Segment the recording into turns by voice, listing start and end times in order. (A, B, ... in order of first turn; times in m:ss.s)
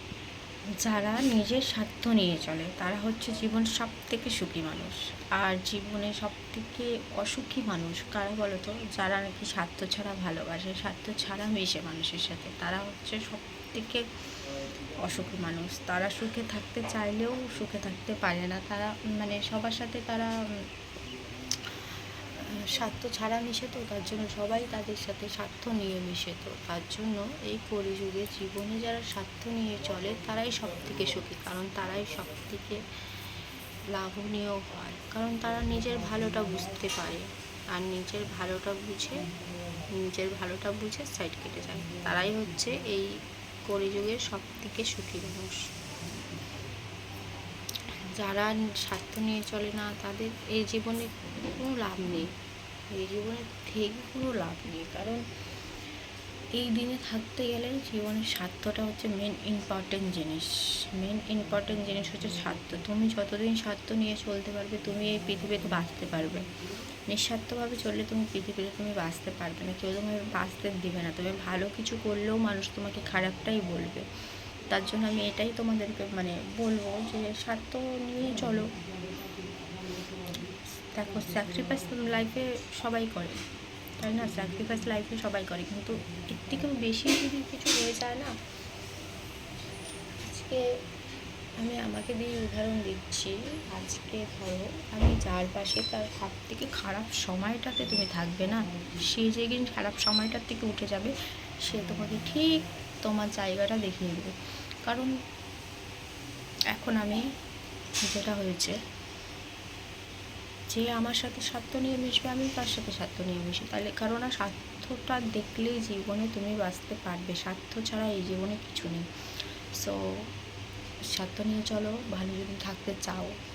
0:00.8-0:14.0 A
0:15.0-0:20.3 A
0:22.4-0:32.8 A
0:33.9-0:39.2 A
0:40.0-0:43.1 A
0:43.7-0:45.6 A
0:48.2-0:52.3 A
0:53.0-0:55.2 A
0:56.6-1:06.4 A
1:07.1-1:14.0 A
1:14.7-1:18.7 A
1:21.0-1:23.4 A
1:24.0-1:28.3 A
1:30.3-1:30.6 A
1:31.6-1:41.1 A
1:41.6-1:44.3 A
1:44.9-1:45.1 A
1:46.7-1:47.2 A
1:48.1-1:48.7 A
1:50.7-1:59.0 A
2:01.2-2:03.3 A